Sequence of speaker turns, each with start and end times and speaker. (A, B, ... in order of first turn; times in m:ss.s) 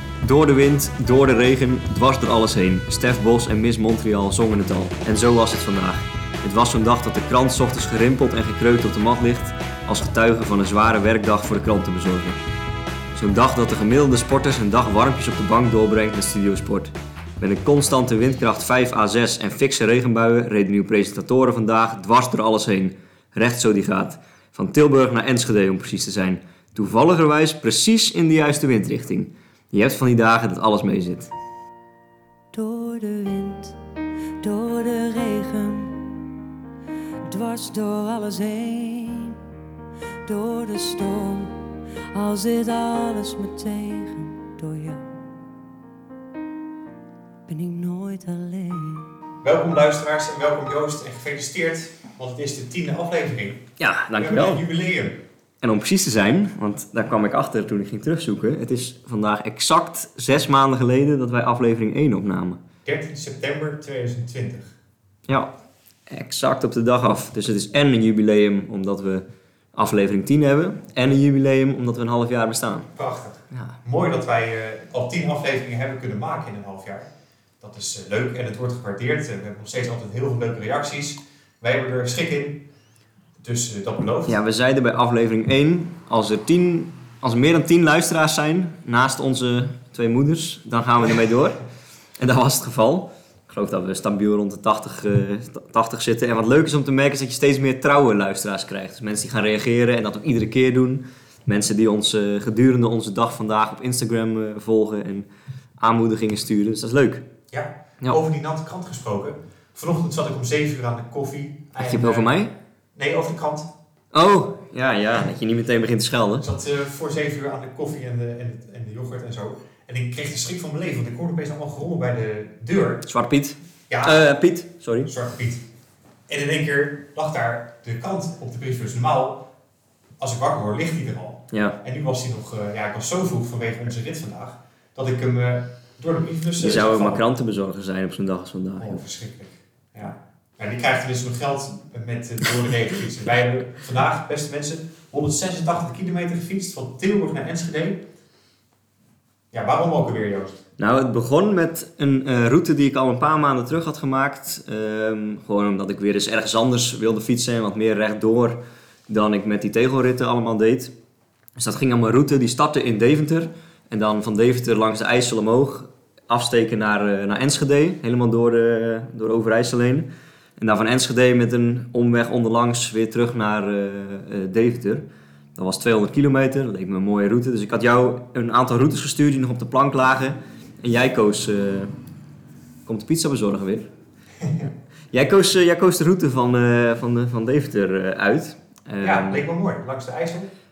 0:00.2-0:12.4 A
0:13.1-0:31.3 A
0:32.6-0:33.6 A
0:34.5-0:34.9 B
0:34.5-0:35.8 A
0:37.4-0:39.3 B
0:37.5-0:38.8 A
0:40.3-0:41.4 B
0:40.8-0:41.3 A
0:42.1-0:45.0 B
0:43.0-0:43.6 A
0:47.5-0:48.7 B
0:49.4-0:53.6 C
0:53.8-0:54.6 A
0:54.2-0:55.2 C
0:55.6-1:02.6 A
1:02.8-1:04.7 C
1:06.1-1:12.9 A
1:12.9-1:17.1 C
1:13.5-1:13.8 A
1:17.6-1:22.6 C
1:23.4-1:24.4 C
1:24.3-1:31.6 A
1:32.2-1:45.3 A
1:45.8-1:47.2 A
1:47.5-1:52.3 C
1:51.8-1:52.5 A
1:52.9-1:53.7 C
1:54.1-1:56.5 A
1:56.4-2:03.0 C
2:03.0-2:05.1 A
2:03.9-2:04.3 C
2:05.0-2:05.6 C
2:06.3-2:09.4 C
2:10.2-2:17.2 C
2:11.5-2:11.8 A
2:16.6-2:19.0 A
2:18.8-2:28.0 C
2:29.5-2:30.6 C
2:30.8-2:40.9 A
2:41.6-3:01.9 A
3:02.8-3:03.9 A
3:04.4-3:04.7 C
3:05.1-3:09.4 A
3:09.0-3:10.5 C